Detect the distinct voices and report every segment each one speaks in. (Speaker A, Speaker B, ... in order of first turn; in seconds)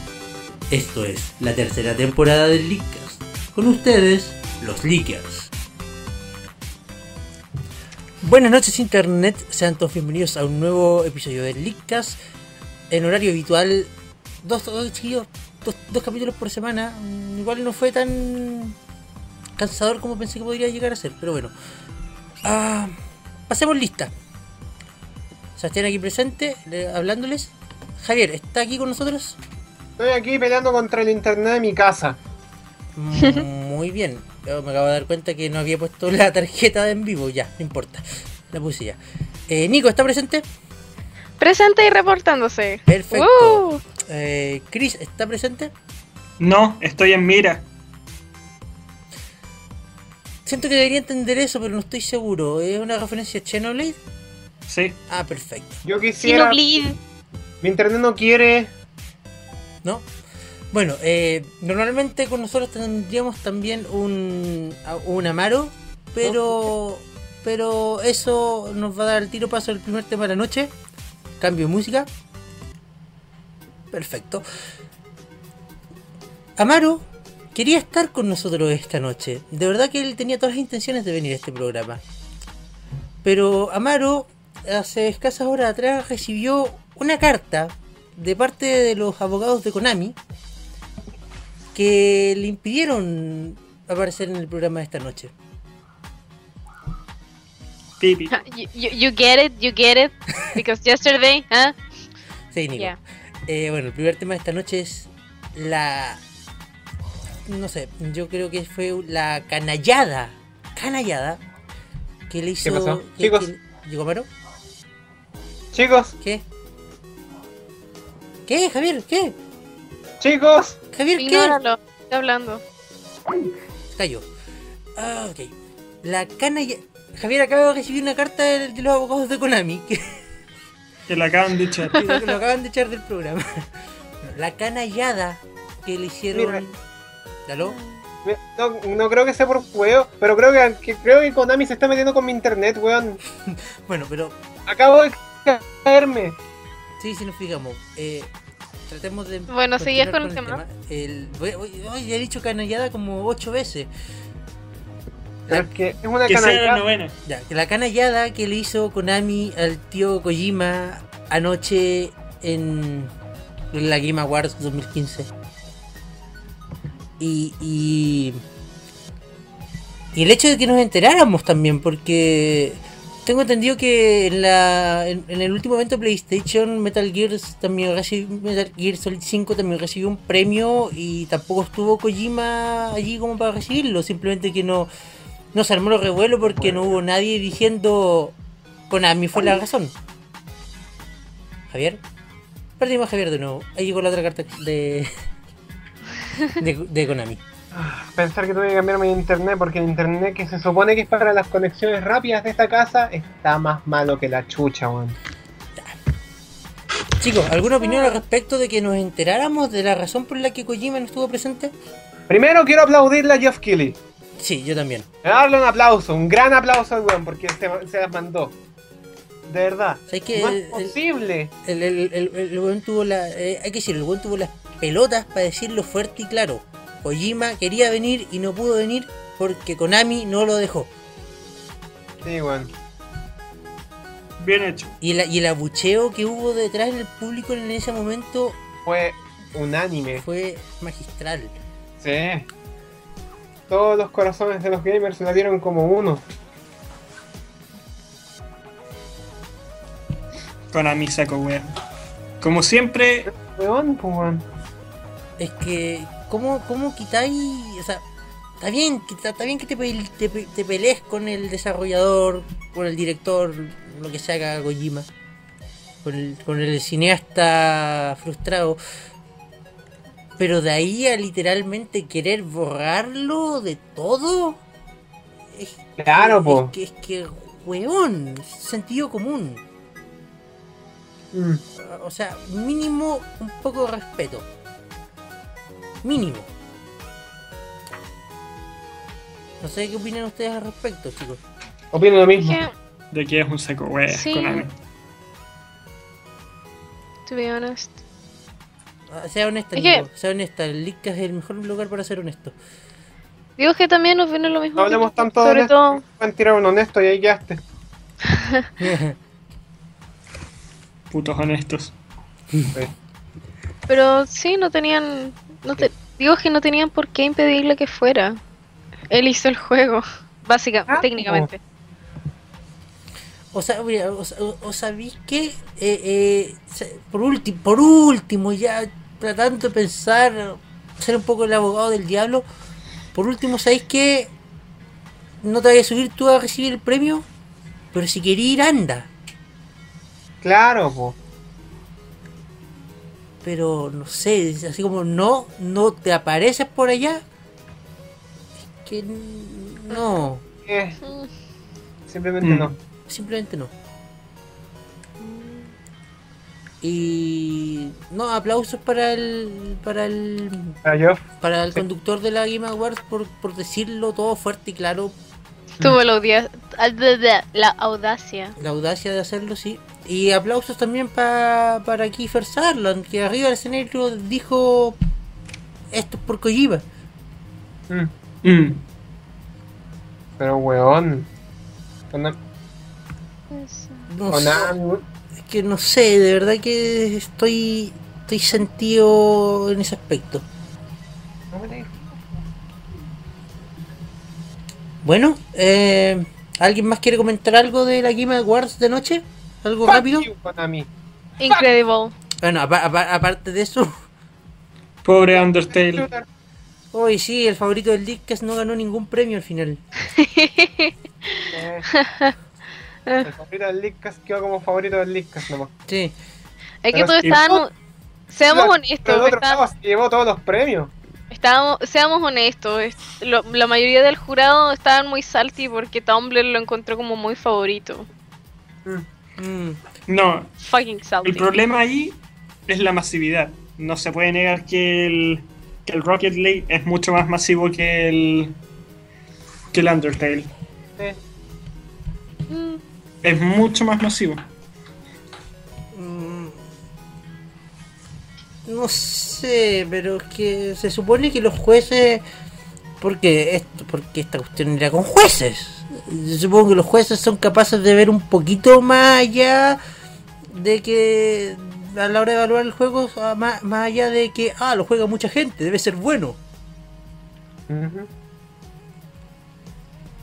Speaker A: 0.7-5.5, 8.2-12.2, 12.9-13.9, 14.4-18.8, 19.6-21.5, 22.4-22.9, 23.5-24.1, 25.6-29.4, 33.0-40.4, 42.9-45.7, 50.4-54.0, 55.1-55.8, 60.7-70.7, 71.4-72.1, 73.9-74.4, 76.6-82.0, 83.2-90.2, 91.7-95.3, 102.5-106.2, 107.5-111.4, 112.3-114.3, 118.5-119.3, 120.9-121.6, 123.9-124.3, 125.0-130.2, 131.9-133.7, 134.2-136.8, 137.5-137.8, 143.4-144.4, 147.0-148.3, 148.9-153.9, 157.2-163.1, 163.7-165.3, 167.2-168.4, 170.1-184.9, 185.5-188.3, 188.9-189.9, 191.7-192.0, 192.8-195.1, 196.6-197.4, 207.2-211.7, 214.4-215.1, 220.1-220.9, 221.6-230.9, 235.0-238.6, 240.2-241.5, 255.4-258.0, 258.6-265.1, 266.0-268.8, 270.4-274.6, 275.5-279.6, 281.8-284.5, 286.0-286.5, 289.6-291.4, 299.1-302.6, 308.8-309.2, 323.5-332.4, 333.1-334.3, 335.4-337.2, 337.9-339.1, 343.4-347.2, 348.8-350.4, 353.1-353.7, 356.8-360.8, 361.4-365.1, 368.6-375.0, 375.9-376.8, 384.1-384.7, 385.4-390.4, 395.0-400.3, 402.4-403.9, 406.9-409.8, 415.9-416.1, 429.4-429.8, 445.9-446.6, 448.6-452.2, 453.0-459.8, 460.5-466.4
Speaker B: 30.0-32.2, 55.8-56.6, 57.6-58.7, 112.6-113.5, 115.7-116.2, 120.2-120.8, 136.3-136.6, 138.2-143.2, 144.7-146.3, 155.5-156.8, 197.7-205.2, 212.3-214.0, 215.2-218.6, 219.5-221.5, 232.2-232.7, 238.8-240.2, 242.0-242.5, 243.7-246.2, 253.3-254.4, 276.0-276.7, 281.3-281.6, 291.9-292.6, 304.8-307.6, 320.9-321.5, 340.4-341.1, 350.6-351.0, 352.1-352.7, 360.8-361.2, 380.4-381.3, 384.3-385.0, 391.5-392.4, 399.8-400.9, 405.3-406.2, 411.5-411.9, 413.2-415.7, 416.9-417.6, 418.5-420.9, 467.7-468.1
Speaker C: 41.4-43.8, 56.2-57.0, 98.3-101.8, 121.2-122.6, 137.6-138.0, 149.5-150.6, 292.3-292.7, 294.1-294.6, 297.3-298.0, 299.8-300.1, 303.6-306.0, 308.3-308.6, 313.9-318.4, 319.1-321.6, 351.0-351.3, 355.2-355.7, 365.8-368.5, 383.5-384.1, 401.4-402.1, 410.0-412.3, 416.8-417.7, 418.3-419.6, 421.3-428.1, 430.6-431.5, 442.5-442.8
Speaker D: 46.4-47.6, 54.7-55.0, 98.0-98.3, 131.1-132.0, 156.3-157.1, 234.4-234.9, 250.7-251.7, 252.4-253.3, 293.1-294.7, 311.1-311.9, 352.4-352.7, 378.4-378.8, 405.0-406.1, 430.1-430.5, 431.2-438.5, 439.7-440.5, 443.2-444.4